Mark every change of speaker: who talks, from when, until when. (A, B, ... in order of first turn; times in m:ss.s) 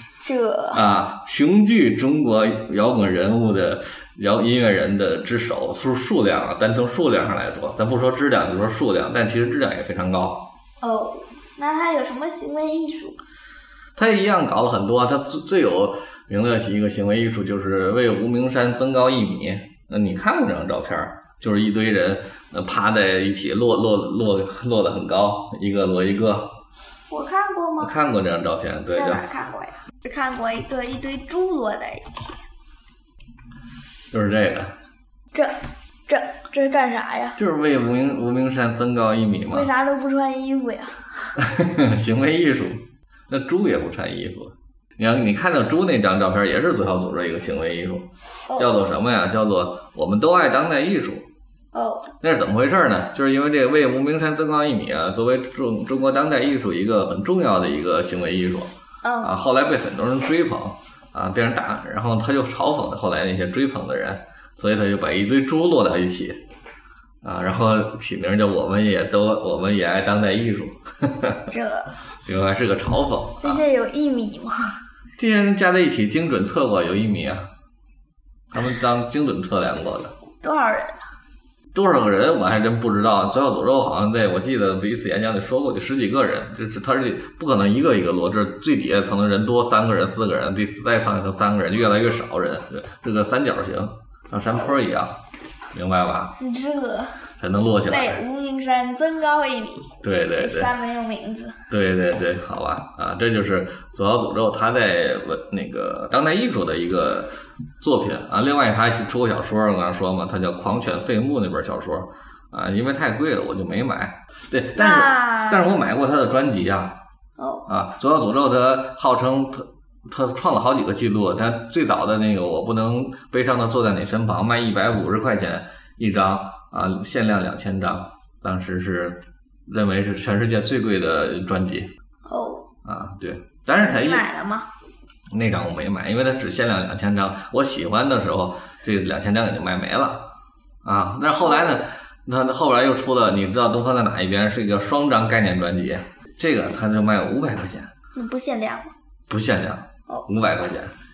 0:00.2-0:00.8 A
0:00.7-0:10.5 B
0:10.8-0:13.2 A
0:14.0-0:26.5 B
0:27.1-0:27.9 A
0:27.8-0:29.2 B
0:28.9-0:32.4 A
0:34.1-0:34.7 B
0:36.1-0:37.4 A
0:37.4-0:39.7 B
0:39.5-0:41.4 A
0:41.4-0:51.2 B
0:48.5-0:48.8 A
0:51.7-0:52.1 A
0:52.2-0:58.7 B
0:59.0-0:59.3 A
0:59.2-1:06.4 B
1:07.2-1:11.5 B
1:11.5-1:11.9 A
1:12.2-1:13.6 B
1:13.4-1:14.8 A
1:15.2-1:17.5 B
1:18.5-1:20.1 B
1:20.4-1:21.0 A
1:21.7-1:35.1 B
1:35.7-1:36.3 B
1:36.4-1:37.2 A
1:37.4-1:38.2 B
1:37.8-1:41.6 A
1:40.0-1:40.7 B
1:41.7-1:57.0 B
1:54.8-1:55.7 A
1:57.4-1:57.6 A
1:57.7-2:11.9 B
2:12.2-2:12.7 A
2:12.8-2:14.2 B
2:13.8-2:14.7 A
2:15.3-2:20.3 B
2:20.8-2:27.9 B
2:21.4-2:21.7 A
2:28.1-2:28.9 A
2:29.3-2:30.9 B